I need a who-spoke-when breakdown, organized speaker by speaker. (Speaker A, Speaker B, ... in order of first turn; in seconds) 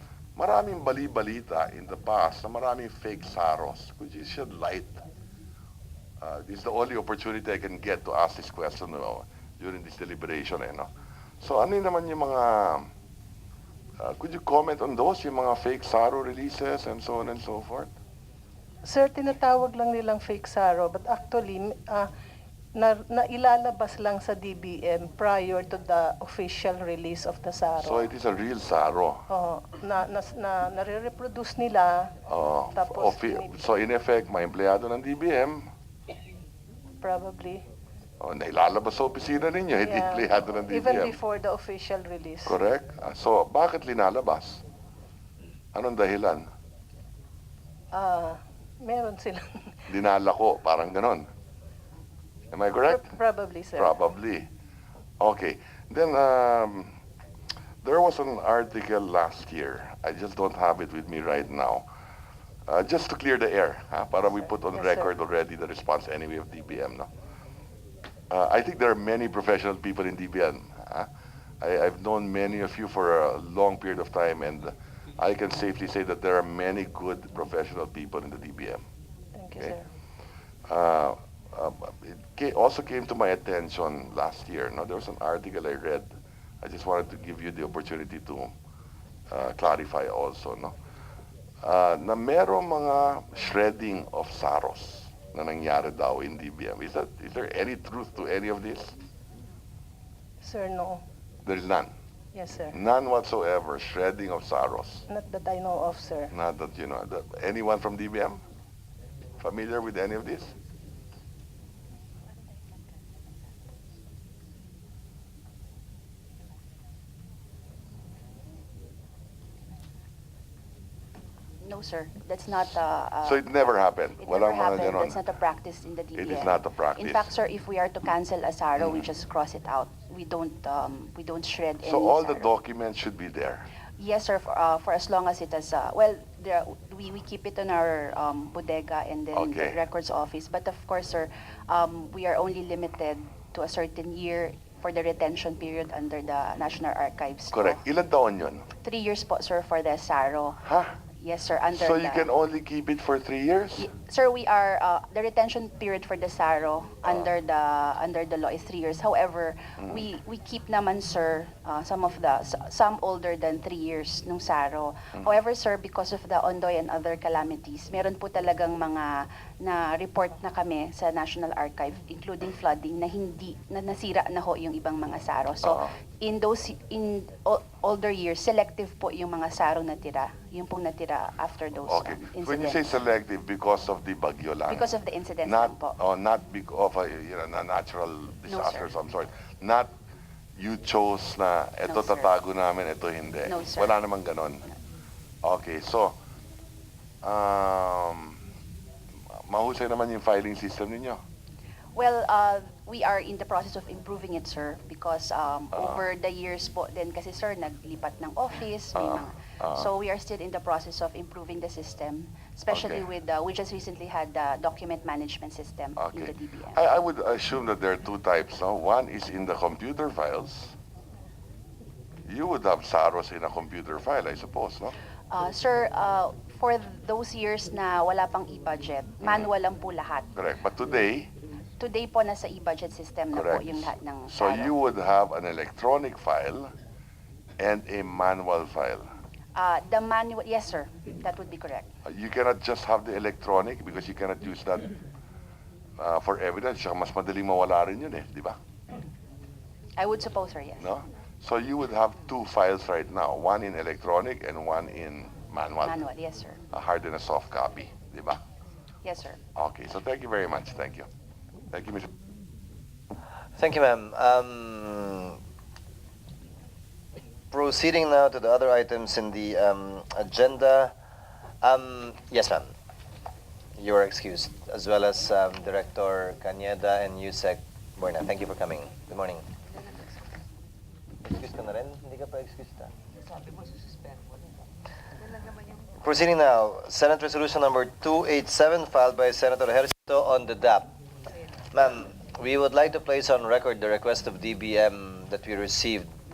Speaker A: 0.3-5.0, 6.2-10.9, 11.4-12.9, 14.0-17.9, 27.8-29.2, 32.3-35.7, 38.2-41.1, 42.5-44.6, 45.7-46.5, 49.9-51.3, 52.5-53.1, 53.8-54.5, 55.2-57.0, 57.8-61.9, 62.7-67.1, 68.3-71.1, 71.6-78.8, 80.7-86.1, 86.6-88.5, 89.3-90.7, 91.6-99.0, 101.4-101.9, 102.7-105.0, 106.3-108.4, 109.4-110.5, 123.2-125.2, 126.2-127.3, 131.8-133.6, 139.3-139.8, 147.5-148.7, 150.6-150.9, 151.7-153.9, 181.9-184.9, 185.4-189.9, 190.6-194.7, 195.4-196.2, 197.2-198.4, 199.3-201.2, 209.0-209.8, 212.7-213.0, 216.0-220.7, 222.3-224.9, 230.3-231.3, 233.3-236.7, 237.6-239.1, 242.0-245.0, 246.0-248.6, 250.8-256.0, 256.7-258.4, 259.5-261.1, 261.7-262.1
Speaker B: 18.8-22.1, 22.7-28.1, 29.3-32.1, 32.7-33.5, 37.0-37.6, 39.8-42.6, 47.9-49.9, 52.9-54.0, 79.3-79.8, 100.4-101.0, 102.3-102.7, 105.1-106.3
Speaker C: 121.6-123.6, 124.2-132.5, 134.0-147.8, 148.8-150.6, 151.2-152.2, 153.8-182.8, 184.7-186.0, 188.5-188.9, 191.9-192.3, 193.4-193.9, 201.9-216.8, 225.3-230.3, 231.8-234.7, 239.5-241.9, 250.0-250.9, 255.8-256.6, 259.0-259.4
Speaker D: 263.6-265.4, 267.5-270.9, 271.6-272.7, 273.8-279.5, 281.2-282.9, 286.0-290.9, 291.7-296.1